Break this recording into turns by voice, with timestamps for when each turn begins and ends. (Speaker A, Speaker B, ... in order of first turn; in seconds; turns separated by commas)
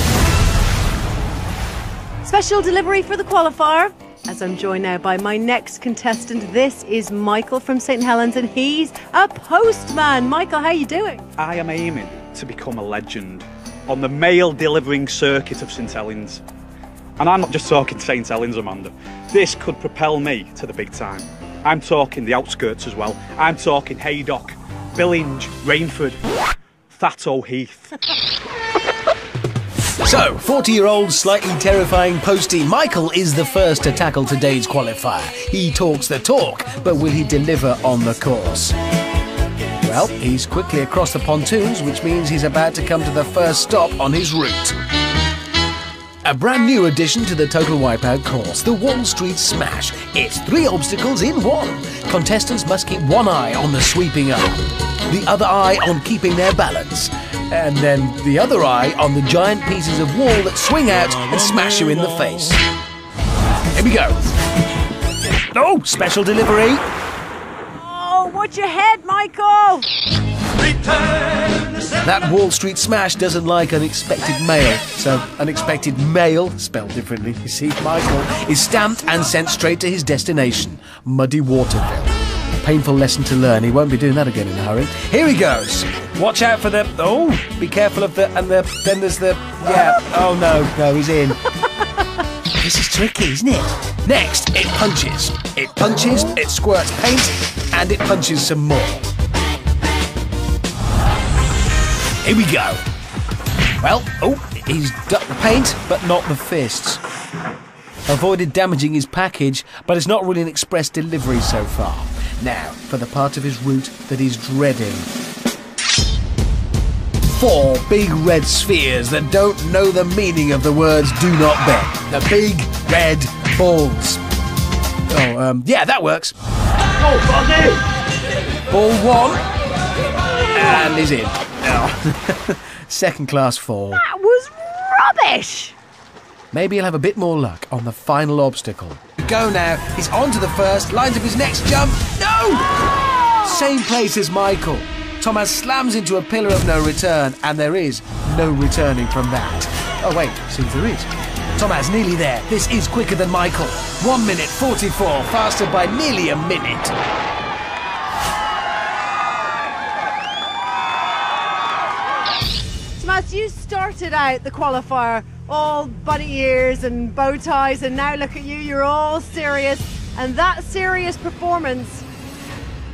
Speaker A: 2.2-11.3, Speaker B: 11.4-16.4, Speaker B: 17.2-26.2, Speaker B: 26.9-27.9, Speaker C: 30.0-38.7, Speaker C: 39.8-44.8, Speaker C: 46.2-62.6, Speaker C: 63.7-64.2, Speaker C: 65.3-66.8, Speaker A: 67.7-69.9, Speaker C: 72.0-91.4, Speaker C: 92.6-99.0, Speaker C: 102.2-102.8, Speaker C: 103.8-107.0, Speaker C: 108.1-115.1, Speaker C: 117.3-124.2, Speaker C: 125.1-126.3, Speaker C: 128.7-129.4, Speaker C: 130.5-134.0, Speaker A: 133.9-135.7, Speaker C: 136.5-142.7, Speaker C: 143.4-156.9, Speaker A: 163.0-172.0